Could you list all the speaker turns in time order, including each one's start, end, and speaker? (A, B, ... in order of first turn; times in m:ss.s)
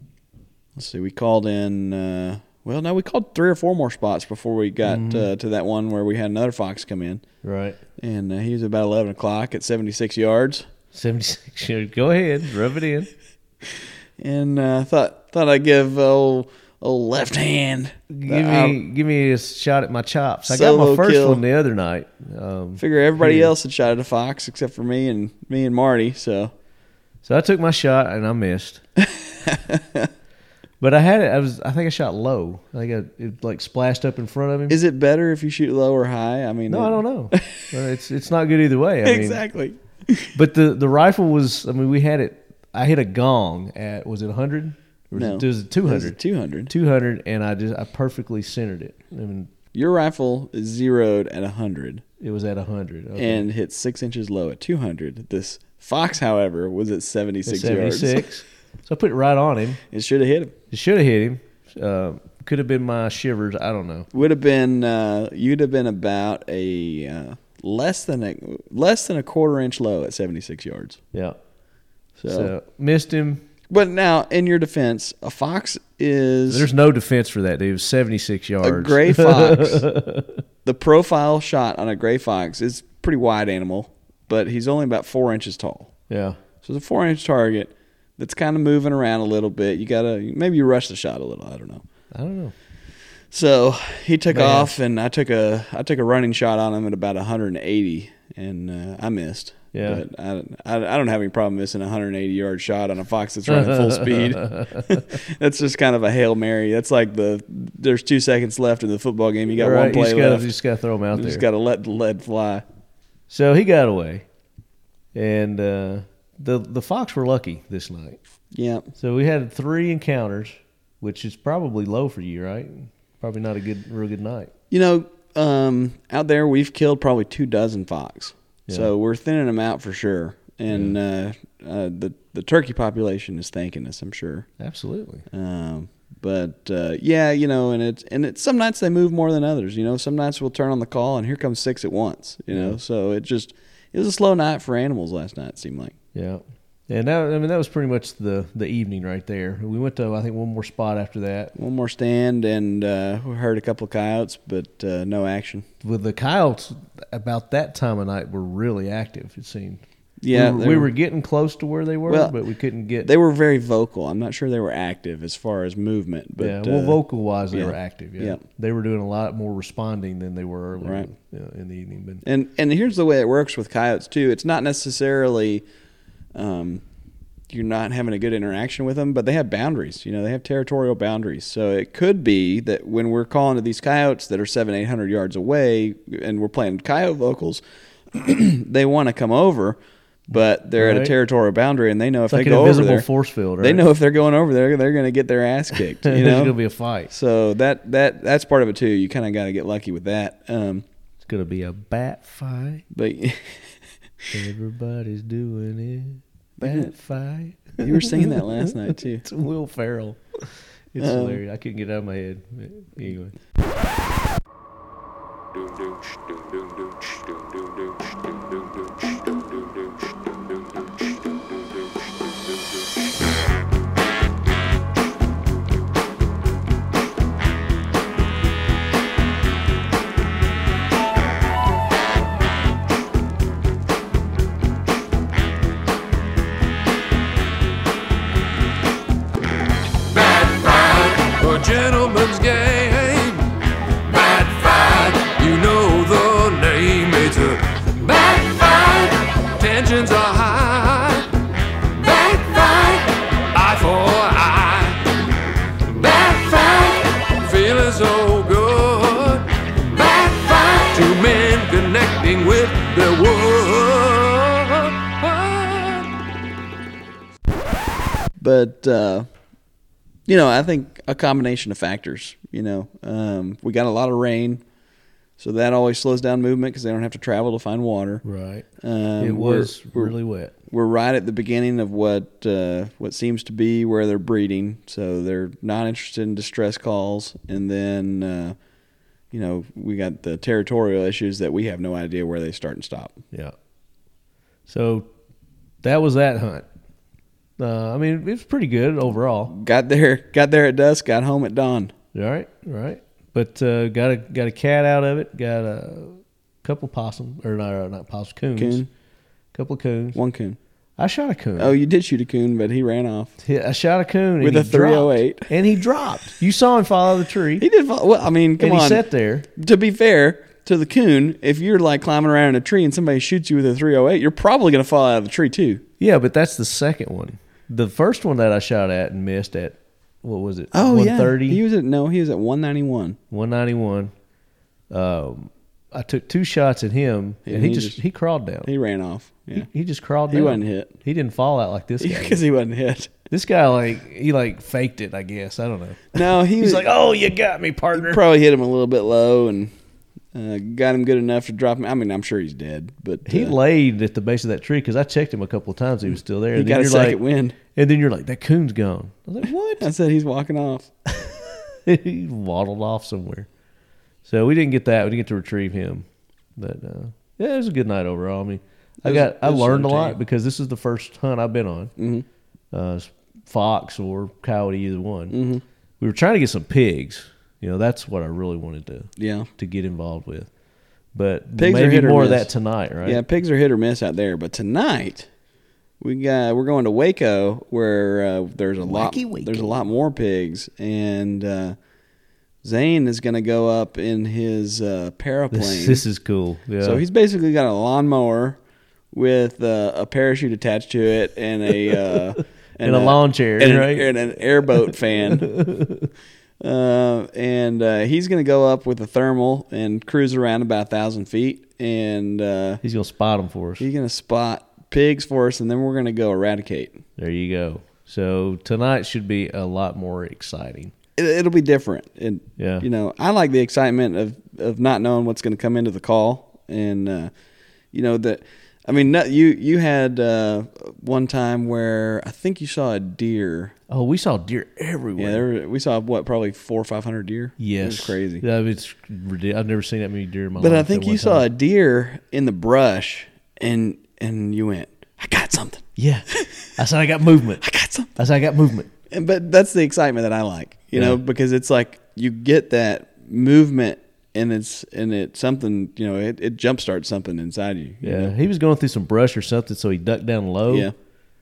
0:00.8-0:07.2 A
0:04.8-0:05.3 B
0:07.4-0:07.8 B
0:08.0-0:10.7 A
0:10.9-0:13.1 B
0:14.2-0:18.8 A
0:18.1-0:23.5 B
0:20.5-0:21.4 A
0:22.8-0:26.5 A
0:27.2-0:28.8 B
0:29.0-0:30.1 A
0:30.8-0:34.8 B
0:34.7-0:37.6 A
0:36.7-0:39.4 B
0:39.0-0:40.3 A
0:40.4-0:46.2 B
0:45.2-0:46.7 A
0:46.7-0:49.5 B
0:49.7-0:52.0 A
0:52.2-0:53.5 B
0:53.2-0:58.3 A
0:57.5-0:59.8 B
0:59.9-1:00.6 A
1:00.7-1:04.1 B
1:04.1-1:11.0 A
1:12.2-1:12.5 A
1:12.3-1:13.4 B
1:13.7-1:16.7 A
1:16.5-1:20.4 B
1:18.6-1:19.8 A
1:20.6-1:25.9 A
1:26.1-1:26.4 B
1:26.6-1:31.8 A
1:32.1-1:32.5 B
1:33.3-1:50.5 A
1:34.3-1:34.8 B
1:39.7-1:40.0 B
1:43.5-1:45.0 B
1:49.6-1:51.4 B
1:51.1-1:52.6 A
1:53.3-1:54.2 B
1:55.1-1:58.2 B
1:58.5-1:58.9 A
1:59.0-2:04.5 B
2:04.7-2:14.5 A
2:14.6-2:15.3 B
2:15.3-2:26.0 A
2:22.5-2:22.8 B
2:26.1-2:31.5 B
2:31.6-2:35.7 A
2:35.8-2:43.1 B
2:40.2-2:40.9 A
2:42.1-2:42.4 A
2:43.0-2:47.0 A
2:46.4-2:52.2 B
2:47.5-2:48.4 A
2:50.8-2:51.1 A
2:52.2-2:55.6 A
2:56.3-2:56.8 A
2:57.5-3:07.6 A
3:08.1-3:09.8 A
3:10.3-3:13.1 A
3:10.8-3:11.1 B
3:12.3-3:13.8 B
3:13.6-3:16.6 A
3:16.0-3:17.1 B
3:17.1-3:20.8 A
3:21.2-3:22.8 B
3:22.9-3:23.7 A
3:24.3-3:33.4 B
3:26.6-3:26.9 A
3:27.8-3:29.2 A
3:31.0-3:31.4 A
4:00.0-4:11.3 C
4:11.9-4:15.3 C
4:15.9-4:26.1 C
4:28.4-4:29.3 A
4:30.3-4:34.6 A
4:35.4-4:38.2 A
4:38.2-4:38.7 B
4:38.8-4:40.1 A
4:39.2-4:40.5 B
4:40.7-4:48.6 A
4:49.3-4:53.2 A
4:54.7-4:55.1 B
4:55.8-4:56.7 B
4:57.6-4:59.5 B
4:59.5-5:01.9 A
5:02.1-5:08.8 B
5:08.6-5:08.9 A
5:09.5-5:10.2 B
5:10.2-5:10.6 A
5:11.0-5:11.8 B
5:11.6-5:13.3 A
5:13.4-5:17.7 B
5:14.4-5:15.5 A
5:17.6-5:19.0 A
5:18.6-5:19.5 B
5:19.6-5:25.8 A
5:26.0-5:31.6 B
5:30.7-5:33.2 A
5:33.3-5:34.1 B
5:34.9-5:38.7 B
5:37.5-5:38.0 A
5:38.6-5:39.7 A
5:39.5-5:42.4 B
5:40.3-5:40.9 A
5:42.0-5:43.2 A
5:43.3-5:48.2 B
5:46.1-5:46.9 A
5:47.9-5:49.7 A
5:50.3-5:53.6 A
5:53.3-5:59.9 B
5:56.5-5:57.6 A
5:59.8-6:00.9 A
6:01.8-6:03.5 B
6:04.2-6:11.9 B
6:09.0-6:10.2 A
6:12.0-6:12.2 A
6:12.7-6:15.4 B
6:15.3-6:15.6 A
6:16.0-6:20.5 B
6:19.2-6:19.5 A
6:21.1-6:23.2 B
6:21.6-6:22.5 A
6:23.0-6:25.3 A
6:26.0-6:31.8 A
6:28.8-6:29.8 B
6:32.6-6:36.0 A
6:35.5-6:37.0 B
6:36.8-6:38.6 A
6:39.1-6:45.5 A
6:42.8-6:44.2 B
6:44.7-6:46.1 B
6:46.6-6:52.8 A
6:52.8-6:53.8 B
6:53.8-6:57.0 A
6:57.2-7:00.9 B
7:01.2-7:07.3 A
7:02.6-7:02.9 B
7:07.9-7:13.8 A
7:13.9-7:15.4 B
7:15.2-7:18.4 A
7:17.6-7:21.4 B
7:20.6-7:25.8 A
7:26.0-7:28.9 B
7:27.6-7:28.2 A
7:29.1-7:38.4 A
7:30.9-7:31.2 B
7:38.0-7:40.9 B
7:40.7-7:40.9 A